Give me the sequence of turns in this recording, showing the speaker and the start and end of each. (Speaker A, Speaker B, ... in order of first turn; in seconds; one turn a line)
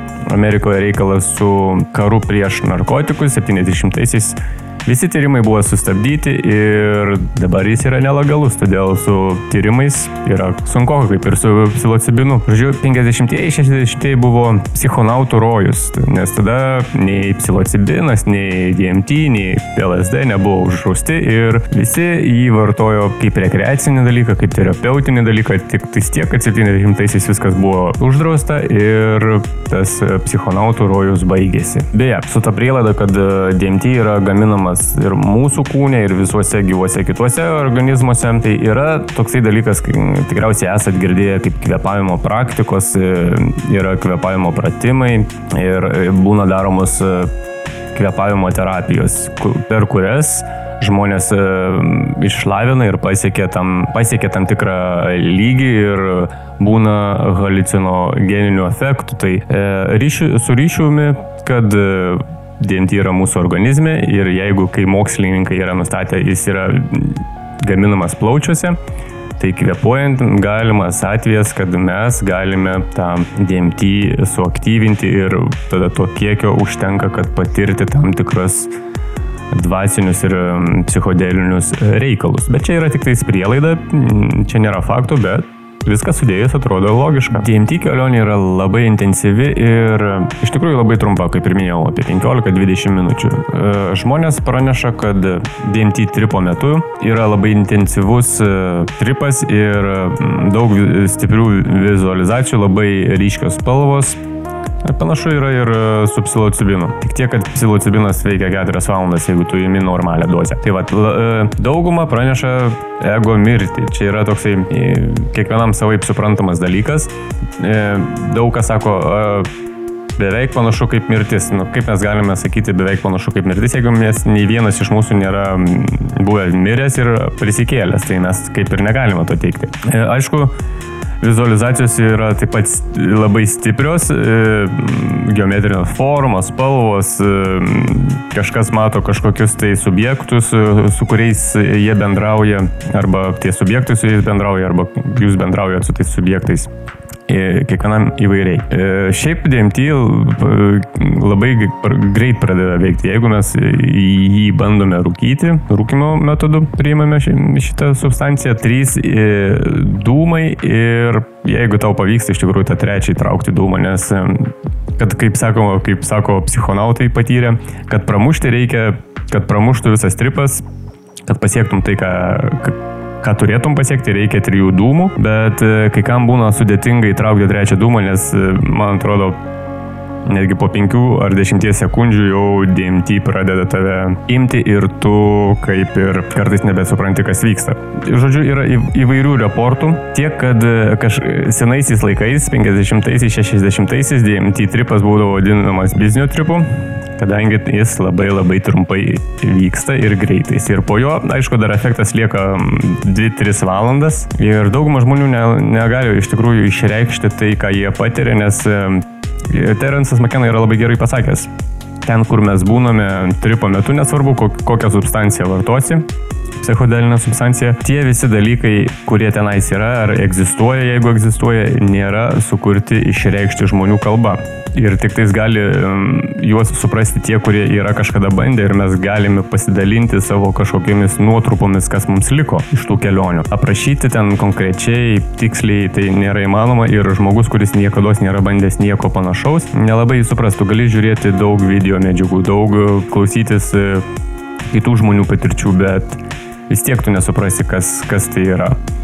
Speaker A: 0.2-47.3
Speaker A: 47.9-68.8
Speaker A: 69.4-78.7
Speaker A: 79.5-104.2
Speaker A: 104.8-119.5
Speaker A: 120.2-130.5
Speaker A: 131.2-146.7
Speaker A: 147.3-170.6
Speaker A: 171.2-179.4
Speaker A: 180.2-211.5
Speaker A: 212.0-216.1
Speaker A: 216.6-244.1
Speaker A: 244.7-248.8